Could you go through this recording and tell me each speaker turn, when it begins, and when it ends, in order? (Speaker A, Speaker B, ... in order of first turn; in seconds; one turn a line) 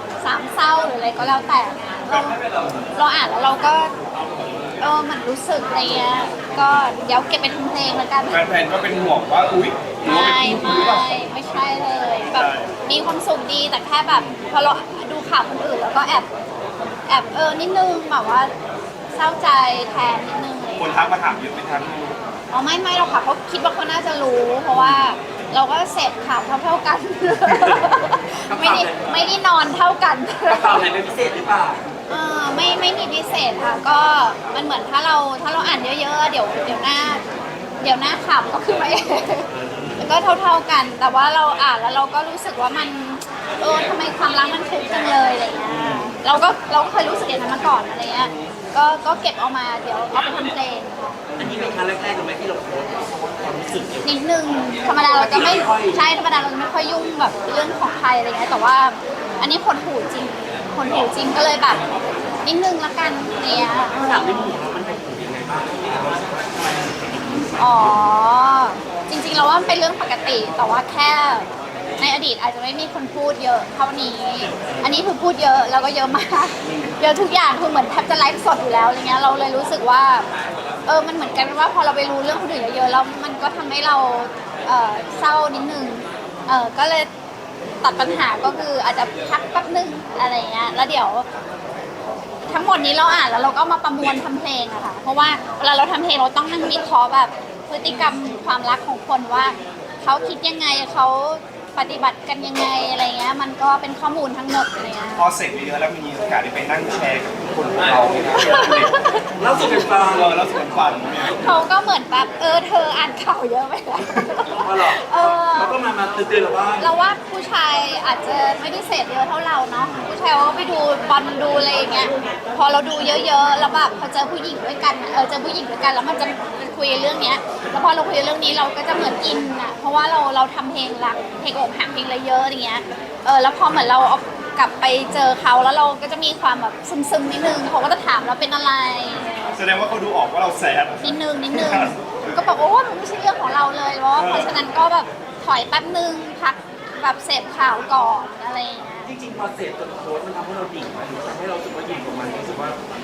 Speaker A: 0.2-2.4
Speaker B: 2.1-2.8
Speaker A: 3.0-3.9
Speaker A: 4.8-8.4
Speaker B: 8.3-11.1
Speaker A: 10.0-16.3
Speaker B: 12.3-12.7
Speaker A: 17.1-18.5
Speaker A: 19.1-21.0
Speaker B: 20.8-22.1
Speaker A: 22.5-30.9
Speaker B: 24.7-25.0
Speaker C: 27.5-27.9
Speaker C: 28.5-29.3
Speaker C: 30.5-31.8
Speaker A: 32.1-37.2
Speaker A: 37.8-39.5
Speaker C: 39.5-40.0
Speaker A: 40.0-51.1
Speaker B: 45.7-46.1
Speaker C: 51.4-54.1
Speaker A: 54.0-61.8
Speaker C: 54.9-56.0
Speaker A: 62.4-64.6
Speaker C: 63.9-68.0
Speaker A: 67.5-71.5
Speaker A: 72.0-80.3
Speaker A: 80.9-87.1
Speaker A: 87.8-91.3
Speaker A: 92.5-105.3
Speaker B: 105.2-111.4
Speaker C: 107.8-108.5
Speaker A: 108.3-109.2
Speaker C: 109.4-110.3
Speaker A: 111.2-115.8
Speaker C: 114.6-116.9
Speaker A: 116.8-139.6
Speaker B: 139.5-141.9
Speaker A: 141.0-149.1
Speaker B: 144.2-144.6
Speaker C: 149.1-152.8